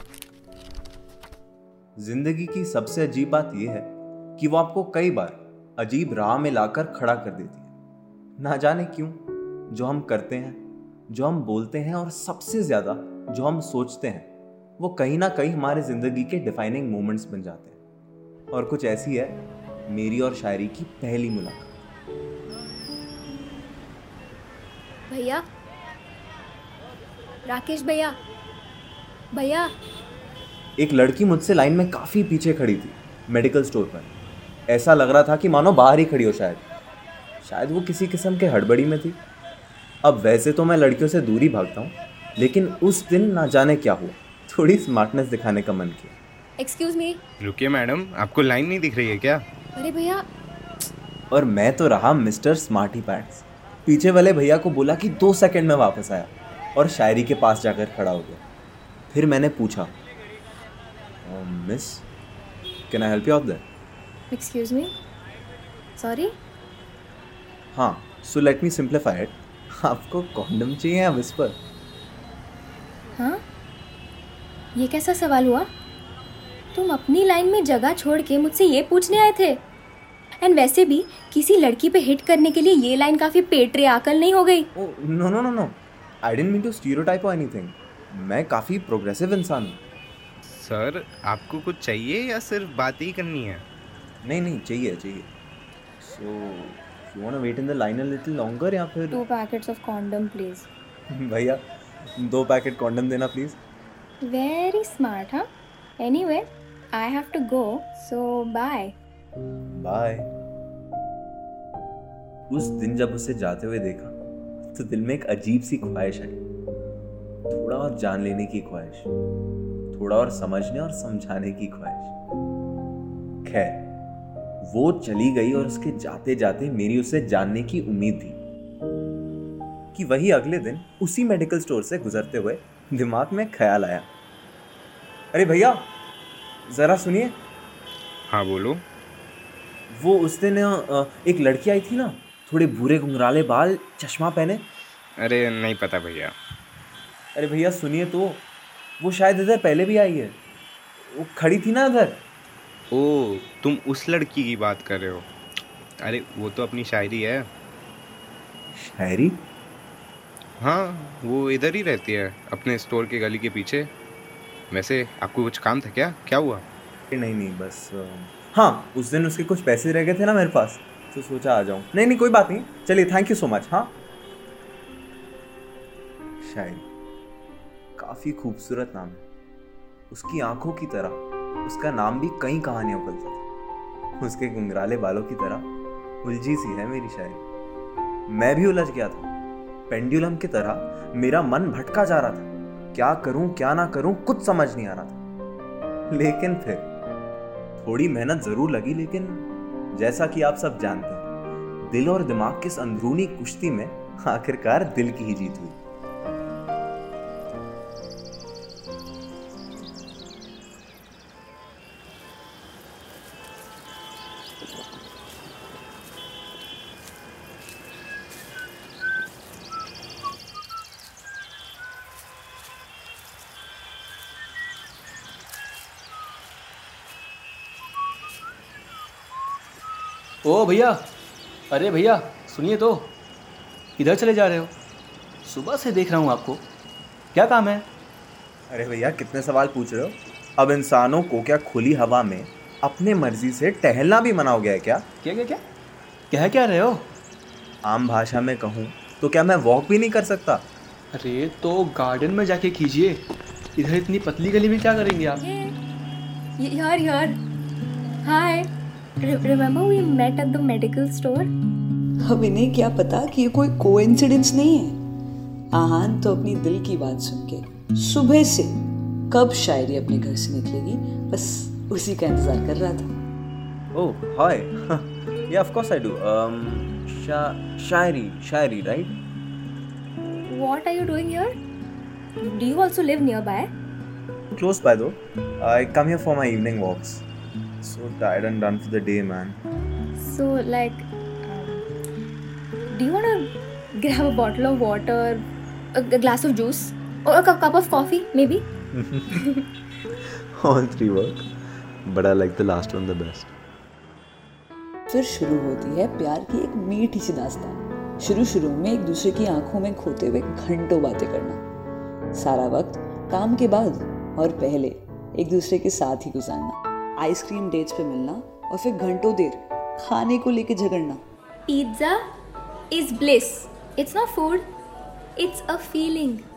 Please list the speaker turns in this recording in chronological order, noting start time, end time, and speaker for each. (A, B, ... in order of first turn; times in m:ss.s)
0:02.0-0:07.7 A
0:08.4-0:17.8 A
0:18.5-0:21.7 A
0:25.1-0:25.4 B
0:27.4-0:28.2 B
0:29.3-0:29.7 B
0:30.8-0:34.1 A
0:34.7-0:36.6 A
0:37.4-0:39.2 A
0:40.0-0:46.2 A
0:46.6-0:47.2 B
0:47.4-0:49.4 C
0:49.8-0:50.2 B
0:51.3-0:58.4 A
0:59.1-0:59.9 A
1:01.2-1:02.0 A
1:02.9-1:03.6 A
1:04.3-1:04.9 B
1:06.0-1:06.3 B
1:07.7-1:11.6 A
1:13.1-1:13.4 B
1:14.7-1:15.7 B
1:16.7-1:19.6 B
1:20.4-1:24.7 B
1:24.8-1:29.8 A
1:30.4-1:33.6 C
1:34.2-1:35.3 A
1:36.0-1:39.2 A
1:39.1-1:40.7 B
1:41.2-1:41.6 A
1:42.2-1:43.6 A
1:44.2-1:45.5 B
1:46.0-1:49.0 B
1:49.8-1:50.3 A
1:52.5-1:54.1 A
1:54.7-1:56.4 A
1:57.5-1:59.1 A
1:59.9-2:02.1 A
2:03.4-2:03.9 A
2:04.7-2:08.4 A
2:09.9-2:14.1 A
2:15.3-2:15.9 A
2:16.7-2:17.4 A
2:18.3-2:18.8 C
2:20.0-2:24.6 A
2:25.2-2:26.3 C
2:27.4-2:28.4 A
2:29.0-2:30.3 A
2:31.0-2:32.2 A
2:32.9-2:35.3 C
2:36.0-2:37.5 C
2:39.0-2:39.3 A
2:40.6-2:43.9 C
2:44.7-2:46.6 C
2:47.1-2:54.0 A
2:56.4-2:56.8 A
2:58.0-2:59.2 A
3:00.1-3:03.4 A
3:04.2-3:05.7 A
3:06.2-3:07.4 A
3:08.3-3:09.3 A
3:09.9-3:15.2 A
3:16.1-3:16.9 A
3:17.8-3:21.3 A
3:21.9-3:25.8 A
3:50.4-3:51.0 D
3:51.7-3:53.1 D
3:54.0-3:54.7 D
3:55.4-3:56.6 D
3:57.3-3:57.8 D
3:58.7-4:05.0 A
4:05.2-4:05.6 D
4:06.3-4:07.0 D
4:07.8-4:10.6 A
4:11.1-4:13.2 D
4:13.8-4:15.4 D
4:15.4-4:15.7 B
4:16.6-4:17.4 B
4:18.2-4:18.7 B
4:19.2-4:21.5 B
4:22.2-4:25.0 E
4:25.7-4:28.8 E
4:29.3-4:33.1 E
4:33.9-4:39.2 A
4:40.5-4:41.6 B
4:42.4-4:43.7 B
4:44.5-4:47.2 A
4:47.8-4:49.6 A
4:50.2-4:51.9 B
4:52.9-4:58.6 B
4:58.9-4:59.4 A
5:00.6-5:01.5 A
5:02.1-5:03.5 A
5:05.1-5:11.6 E
5:12.3-5:21.2 E
5:21.7-5:22.2 B
5:22.9-5:24.7 B
5:25.4-5:26.4 B